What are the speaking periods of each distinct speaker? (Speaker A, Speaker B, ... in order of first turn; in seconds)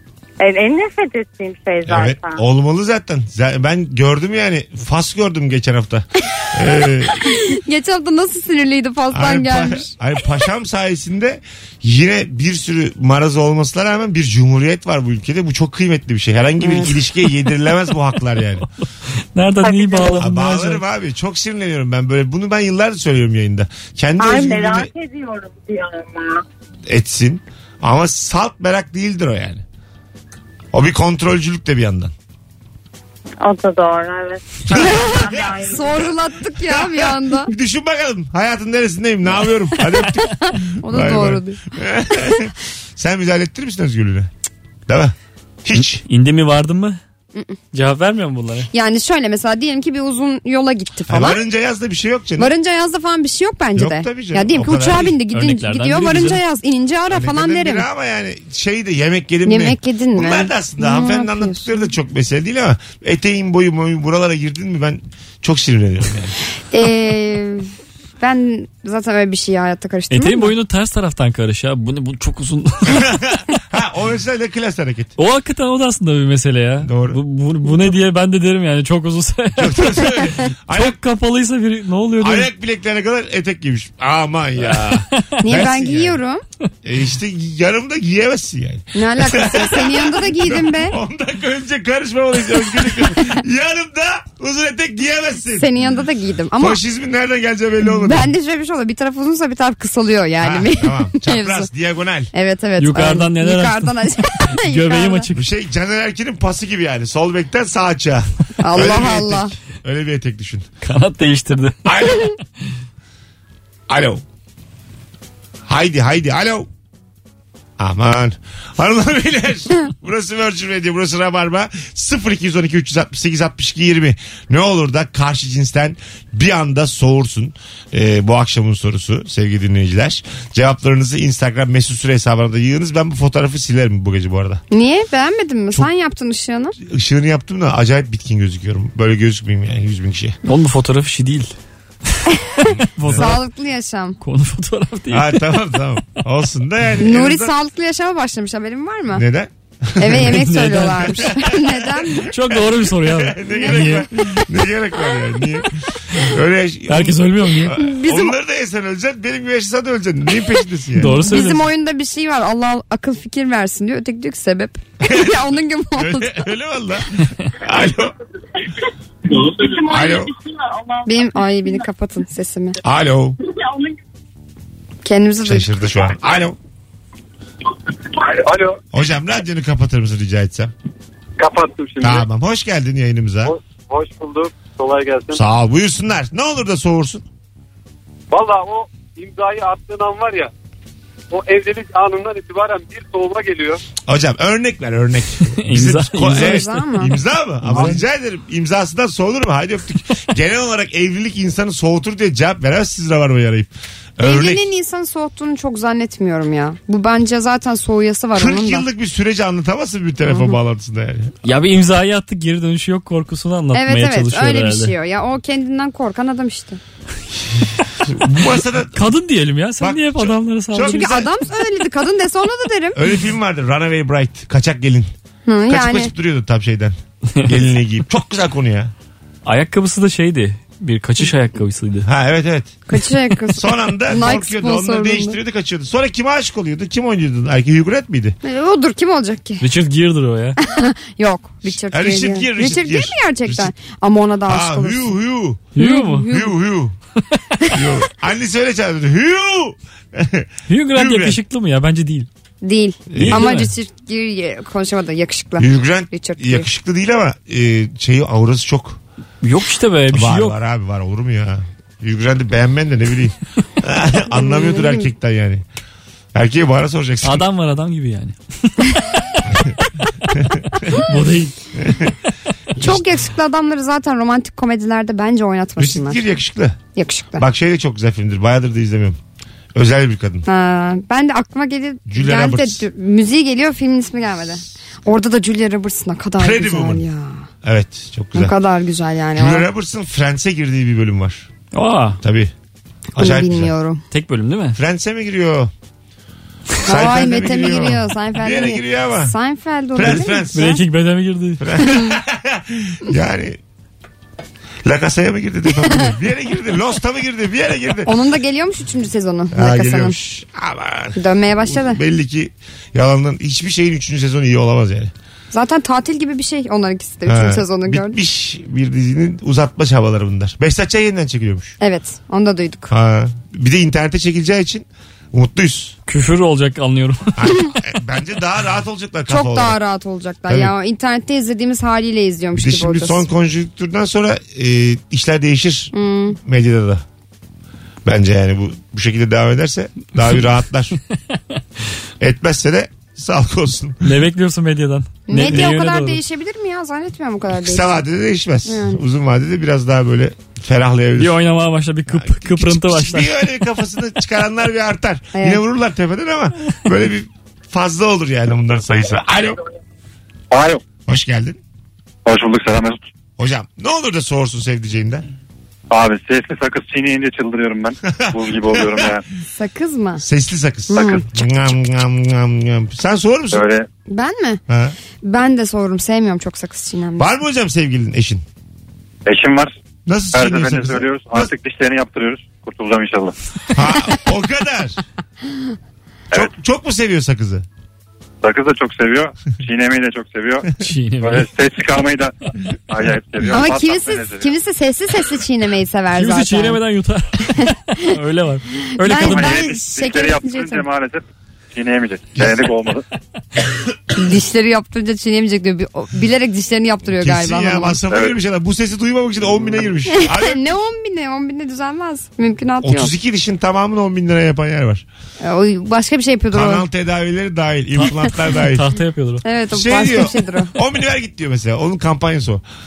Speaker A: 0.4-2.4, 19.6-20.2, 24.2-26.4, 33.4-36.1
Speaker B: 1.9-7.3, 9.1-18.7, 20.2-24.9, 26.9-29.6, 30.7-32.1, 34.7-35.6, 36.6-44.3, 44.9-46.0, 51.1-52.5, 53.8-55.1, 57.1-66.3, 72.9-75.1, 76.8-77.2, 79.6-81.0, 82.2-86.2, 86.8-95.8, 96.6-98.3, 100.4-102.3, 105.3-110.7, 111.8-112.3, 113.9-114.2, 115.7-116.7, 117.8-134.6, 136.8-140.3, 142.7-143.3, 145.1-147.5, 149.1-150.4, 151.1-161.2, 165.0-165.4, 165.9-168.1, 169.8-170.3, 172.8-173.4, 175.4-176.6, 178.9-180.7, 182.0-183.5, 185.3-187.2, 194.0-204.6, 208.3-211.3, 218.1-219.1, 219.8-221.3, 222.9-225.1, 225.7-228.9, 232.0-232.8, 233.5-238.4, 241.6-243.7, 244.5-245.7, 246.3-246.9, 247.7-251.4, 253.1-253.5, 255.6-259.0, 260.1-265.6, 266.3-267.4, 270.4-270.8, 271.8-272.1, 275.8-276.8, 277.4-279.2, 279.7-280.4, 282.1-282.8, 286.4-287.0, 287.6-288.5, 289.4-291.5, 292.2-292.5, 293.1-293.7, 294.7-295.7, 296.8-299.3, 299.9-300.7, 301.6-303.6, 304.8-308.1, 309.5-315.1, 317.2-321.8, 322.9-325.9, 327.4-329.8, 330.5-330.7, 332.5-337.0, 338.0-341.0, 342.2-344.1, 345.4-345.7, 347.6-351.4, 352.1-359.6, 361.1-361.6, 363.4-365.2, 368.1-369.2, 370.2-373.7, 374.7-374.9, 377.2-378.4, 380.1-381.5, 383.7-385.0, 386.3-387.6, 402.4-402.7, 407.1-410.6, 412.8-415.0, 416.5-418.9, 419.7-422.6
Speaker C: 7.3-9.9, 34.7-37.5, 40.1-41.6, 42.1-42.4, 48.7-51.4, 52.4-57.9, 59.4-61.9, 66.7-67.7, 68.2-70.5, 85.4-86.4, 88.9-91.0, 95.5-96.8, 97.8-101.7, 102.3-105.3, 108.6-109.5, 134.7-136.7, 143.1-144.2, 147.0-149.2, 150.0-152.3, 153.5-154.0, 157.7-158.3, 161.0-166.4, 171.1-172.8, 175.0-175.7, 196.3-197.1, 204.2-208.8, 210.2-210.6, 213.7-216.8, 220.8-223.0, 225.4-226.1, 232.9-235.4, 238.4-239.6, 240.6-245.1, 245.8-246.6, 252.6-256.7, 264.3-265.1, 272.8-276.2, 276.9-277.4, 280.4-287.4, 288.3-289.6, 293.2-294.0, 296.8-300.8, 301.8-302.2, 305.8-306.1, 308.1-310.2, 311.1-312.0, 315.5-318.2, 321.8-322.9, 329.3-333.2, 335.9-336.4, 345.3-348.0, 348.7-349.0, 355.3-355.6, 369.5-370.2, 370.9-371.2, 374.1-374.6, 375.2-377.3, 393.5-396.8, 397.5-398.1, 399.0-400.9, 404.1-408.0, 410.1-413.1, 415.4-416.9, 419.4-420.7
Speaker D: 19.3-20.8, 46.0-47.0, 47.7-48.7, 55.3-56.4, 70.1-73.2, 75.2-82.5, 84.6-85.2, 102.8-105.5, 110.8-112.0, 140.4-141.5, 142.9-143.4, 144.2-145.5, 150.1-151.3, 152.3-154.1, 156.9-157.7, 161.0-161.7, 195.6-196.8, 197.7-197.9, 211.4-214.9, 218.9-221.2, 229.4-232.1, 239.6-240.6, 245.7-246.3, 250.7-252.3, 253.2-253.7, 259.4-260.6, 267.2-269.0, 270.9-271.5, 291.7-292.2, 294.1-294.8, 300.0-301.6, 326.1-327.5, 344.0-346.2, 351.2-353.3, 390.8-391.5, 396.1-399.7, 418.0-419.4
Speaker E: 178.1-178.8, 181.4-182.3, 183.4-185.4, 188.3-190.5, 191.3-193.8
Speaker F: 360.5-360.8, 362.2-363.0, 365.9-369.2, 370.9-371.2, 373.5-373.9, 379.2-379.7, 380.3-383.3, 388.4-390.7, 391.2-392.3, 392.9-394.5, 399.1-403.0